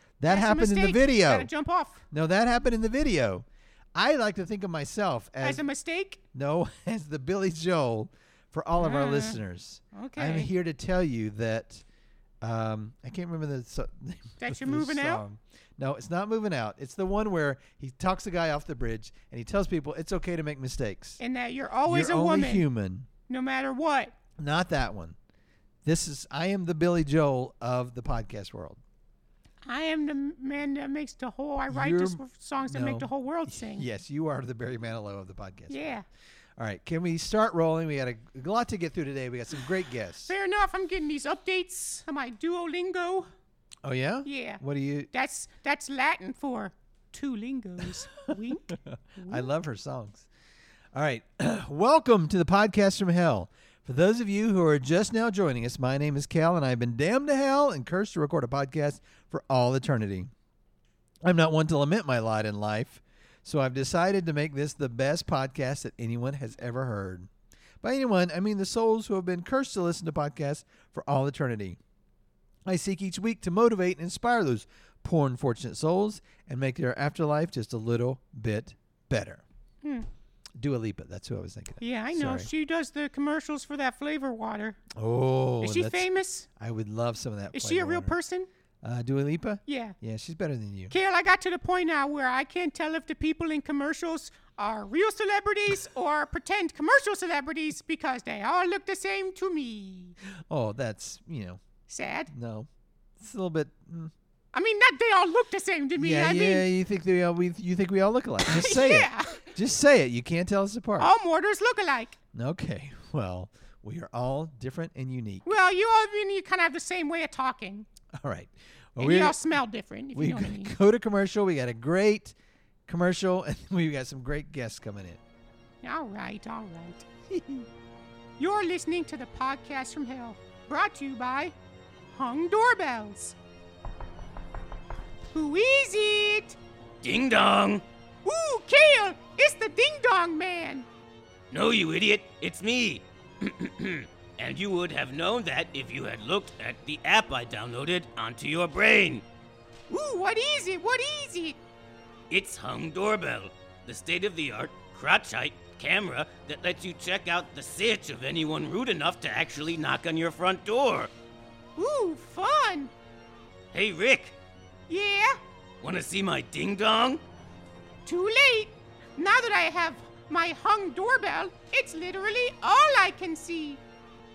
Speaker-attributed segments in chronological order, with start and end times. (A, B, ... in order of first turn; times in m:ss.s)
0:00.2-0:01.5 A
0:00.3-0:02.0 B
0:02.1-0:05.6 A
0:05.4-0:06.2 B
0:06.3-0:11.8 A
0:08.8-0:09.4 B
0:09.9-0:10.5 B
0:12.4-0:21.2 A
0:14.4-0:15.2 B
0:21.2-0:22.6 B
0:21.8-0:23.1 A
0:23.3-0:24.2 B
0:24.4-0:25.2 A
0:25.8-0:28.8 A
0:29.6-0:33.9 B
0:31.7-0:36.0 A
0:35.7-0:36.0 B
0:36.6-0:40.3 A
0:40.3-0:43.3 B
0:43.8-0:45.1 A
0:44.2-0:49.5 B
0:48.7-0:50.2 A
0:50.9-1:00.3 A
1:01.2-1:07.3 A
1:07.8-1:11.8 A
1:12.6-1:19.4 A
1:19.8-1:20.1 B
1:20.6-1:22.5 A
1:21.8-1:24.8 B
1:24.9-1:28.2 A
1:25.6-1:26.5 B
1:27.5-1:28.5 B
1:28.8-1:31.0 A
1:29.7-1:30.0 B
1:30.9-1:40.2 B
1:40.5-1:41.6 A
1:41.9-1:42.3 B
1:42.3-1:44.1 A
1:44.5-1:46.7 B
1:46.0-1:51.1 A
1:48.4-1:49.5 B
1:51.0-1:52.2 B
1:52.3-1:55.5 A
1:55.4-1:57.8 B
1:58.2-1:59.4 A
1:59.0-2:00.8 B
2:00.1-2:02.3 A
2:02.9-2:05.2 A
2:05.8-2:07.0 B
2:07.3-2:07.6 A
2:08.4-2:11.5 B
2:12.1-2:13.4 B
2:15.3-2:16.6 B
2:17.0-2:17.8 C
2:18.2-2:20.8 B
2:21.5-2:29.2 C
2:29.9-2:31.6 B
2:32.3-2:41.1 C
2:41.8-2:42.9 B
2:43.7-2:44.3 C
2:44.9-2:45.4 B
2:45.8-2:47.2 C
2:48.0-2:53.8 B